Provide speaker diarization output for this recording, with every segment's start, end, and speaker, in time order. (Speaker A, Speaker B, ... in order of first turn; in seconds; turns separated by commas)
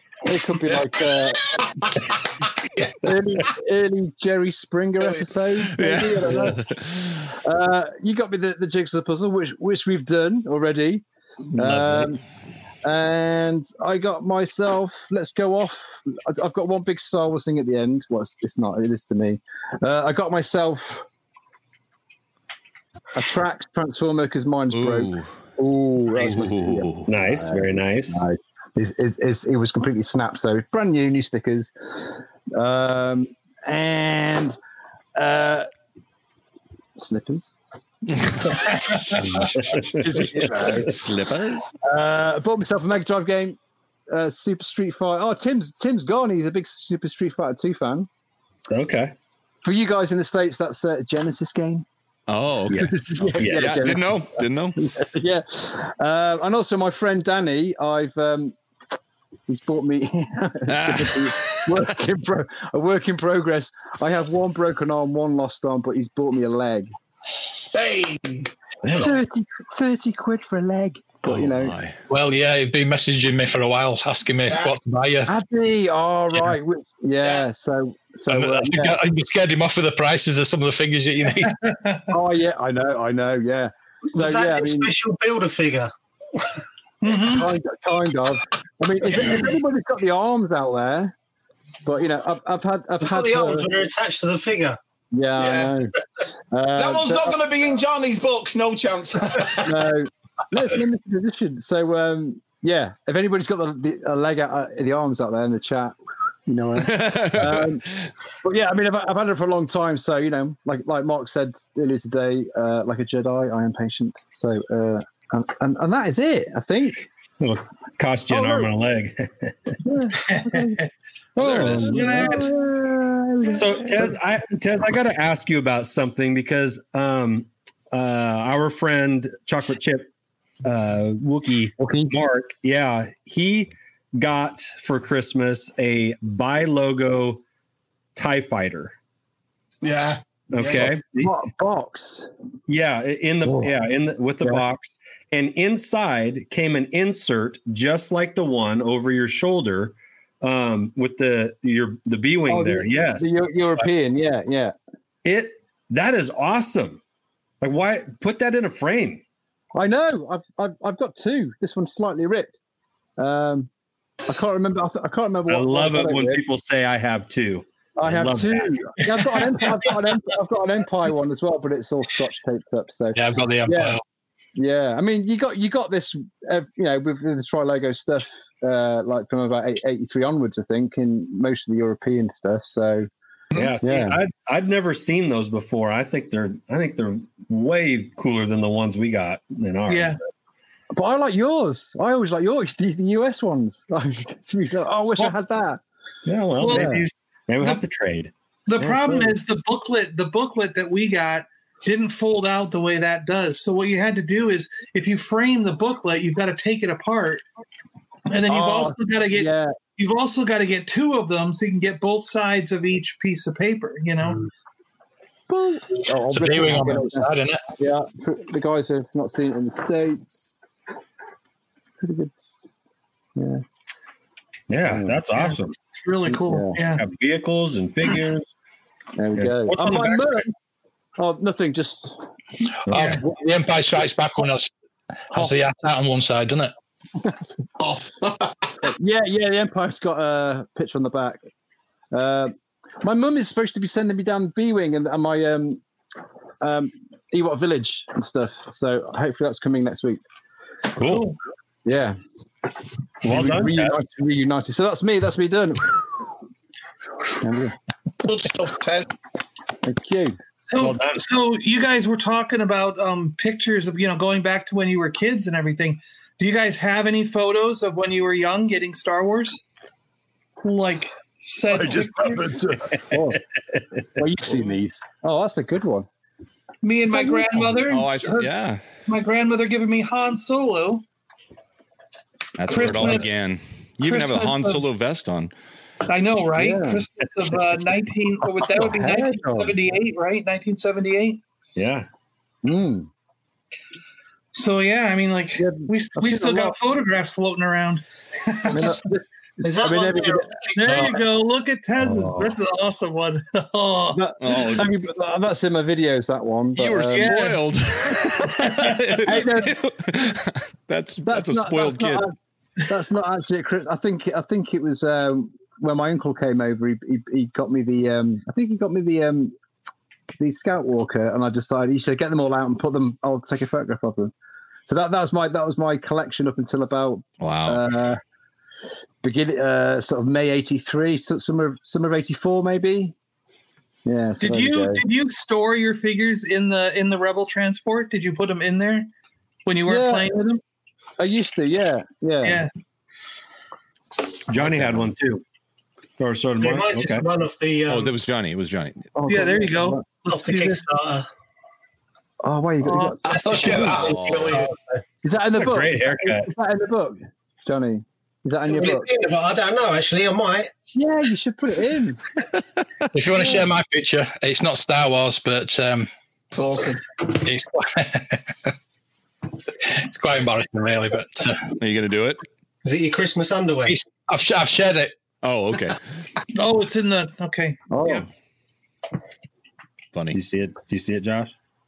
Speaker A: 0.2-1.6, Speaker B: 1.2-3.5, Speaker A: 3.0-12.2, Speaker B: 5.0-5.3, Speaker C: 5.7-7.2, Speaker D: 11.5-12.1, Speaker A: 12.8-21.1, Speaker A: 23.1-34.6, Speaker C: 24.7-25.4, Speaker C: 26.2-27.1, Speaker D: 27.1-28.2, Speaker A: 35.2-35.7, Speaker A: 37.0-37.5, Speaker C: 38.1-41.7, Speaker D: 39.1-40.9, Speaker A: 39.7-41.1, Speaker A: 41.8-43.6, Speaker A: 44.1-48.1, Speaker D: 48.7-49.1, Speaker A: 49.6-51.9, Speaker C: 52.3-54.8, Speaker D: 52.7-53.9, Speaker A: 52.7-58.6, Speaker A: 59.5-66.9, Speaker C: 60.7-61.8, Speaker B: 67.7-68.5, Speaker D: 68.8-69.2, Speaker A: 68.9-71.8, Speaker C: 71.2-72.0, Speaker E: 72.1-75.3, Speaker A: 75.3-79.0, Speaker E: 78.3-81.6, Speaker F: 81.4-82.1, Speaker A: 82.1-84.9, Speaker G: 84.1-85.9, Speaker F: 87.0-87.5, Speaker A: 87.1-91.1, Speaker A: 91.8-93.7, Speaker G: 93.0-94.8, Speaker A: 95.1-95.9, Speaker B: 95.4-95.7, Speaker A: 96.5-97.4, Speaker B: 96.8-99.9, Speaker A: 99.6-107.9, Speaker C: 106.8-108.1, Speaker A: 108.4-117.1, Speaker D: 117.4-119.8, Speaker A: 119.8-120.8, Speaker F: 120.2-120.9, Speaker D: 121.4-122.4, Speaker C: 121.4-121.8, Speaker F: 121.5-122.6, Speaker A: 121.5-124.2, Speaker D: 123.5-130.1, Speaker D: 130.6-137.4, Speaker A: 131.8-132.2, Speaker D: 138.2-139.0, Speaker B: 139.8-140.9, Speaker D: 140.5-141.3, Speaker A: 141.1-142.3, Speaker D: 142.7-153.4, Speaker A: 143.5-143.7, Speaker A: 152.5-154.8, Speaker D: 155.2-157.0, Speaker D: 157.6-159.2, Speaker A: 159.7-162.6, Speaker A: 163.2-163.7, Speaker A: 164.3-166.4, Speaker D: 165.5-168.9, Speaker A: 168.0-174.0, Speaker E: 173.2-174.0, Speaker A: 174.6-183.1, Speaker D: 183.5-190.2, Speaker A: 183.8-184.2, Speaker F: 189.9-190.2, Speaker A: 190.9-195.8, Speaker D: 196.3-198.3, Speaker F: 196.6-197.0, Speaker A: 196.7-197.0, Speaker F: 198.7-207.4, Speaker A: 198.8-199.4, Speaker F: 208.3-214.4, Speaker A: 208.5-209.8, Speaker A: 215.5-220.6, Speaker E: 216.3-217.6, Speaker A: 222.0-222.6, Speaker A: 223.4-223.6, Speaker D: 224.7-225.8, Speaker A: 224.9-225.2, Speaker F: 225.3-227.1, Speaker A: 226.3-226.8, Speaker D: 226.8-228.5, Speaker A: 229.2-230.5, Speaker D: 229.3-230.2, Speaker A: 231.2-232.2, Speaker A: 232.9-233.2, Speaker E: 232.9-234.7, Speaker F: 232.9-233.2, Speaker E: 235.3-236.7, Speaker B: 237.8-238.7, Speaker A: 238.9-241.4, Speaker A: 242.1-245.8, Speaker A: 246.6-250.2, Speaker D: 251.0-251.3, Speaker F: 251.0-251.4, Speaker A: 251.8-252.2, Speaker D: 253.2-254.0, Speaker A: 253.2-256.0, Speaker A: 257.4-257.8, Speaker B: 258.2-259.1, Speaker A: 259.8-260.4, Speaker F: 260.7-269.6, Speaker D: 260.8-261.3, Speaker F: 270.6-272.8, Speaker A: 271.7-273.4, Speaker D: 273.1-274.1, Speaker A: 274.2-276.1, Speaker F: 276.8-278.5, Speaker A: 277.1-277.8, Speaker C: 277.9-278.9, Speaker F: 279.1-281.0, Speaker C: 282.6-285.5, Speaker F: 282.6-283.3, Speaker F: 284.0-284.9, Speaker F: 286.1-291.4, Speaker A: 286.6-287.1, Speaker A: 288.4-289.8, Speaker D: 291.8-292.1, Speaker A: 292.6-293.1, Speaker F: 294.5-299.1, Speaker A: 295.6-296.8, Speaker A: 298.7-301.2, Speaker G: 299.6-301.1, Speaker F: 300.8-304.8, Speaker A: 302.0-302.6, Speaker A: 304.1-307.4, Speaker C: 304.4-304.9, Speaker C: 306.8-312.2, Speaker F: 307.1-307.6, Speaker F: 308.6-309.2, Speaker A: 309.3-309.8, Speaker A: 311.2-312.3, Speaker A: 312.9-319.6, Speaker A: 320.4-324.3, Speaker A: 324.9-328.2, Speaker C: 327.4-327.8, Speaker A: 329.2-333.1, Speaker A: 334.1-335.0, Speaker F: 334.4-339.1, Speaker F: 339.7-340.6, Speaker A: 339.9-340.3, Speaker A: 341.2-342.7, Speaker F: 342.4-342.7, Speaker D: 344.5-345.4, Speaker C: 344.6-345.1, Speaker D: 346.2-347.3, Speaker G: 346.6-348.1, Speaker C: 347.9-349.1, Speaker A: 349.1-350.1, Speaker F: 349.3-350.8, Speaker G: 350.3-351.3, Speaker A: 352.4-354.2, Speaker F: 352.8-353.9, Speaker B: 353.3-354.7, Speaker G: 353.5-354.7, Speaker C: 354.0-354.6, Speaker A: 355.2-359.1, Speaker D: 355.6-356.5, Speaker G: 358.7-360.7, Speaker A: 360.9-362.2, Speaker E: 363.1-366.1, Speaker B: 366.5-367.0, Speaker E: 367.3-368.7, Speaker E: 369.9-371.7, Speaker C: 371.8-372.4, Speaker G: 372.8-374.0, Speaker E: 373.9-375.1, Speaker C: 375.4-376.0, Speaker F: 376.5-378.3, Speaker A: 377.9-378.3, Speaker D: 380.3-381.5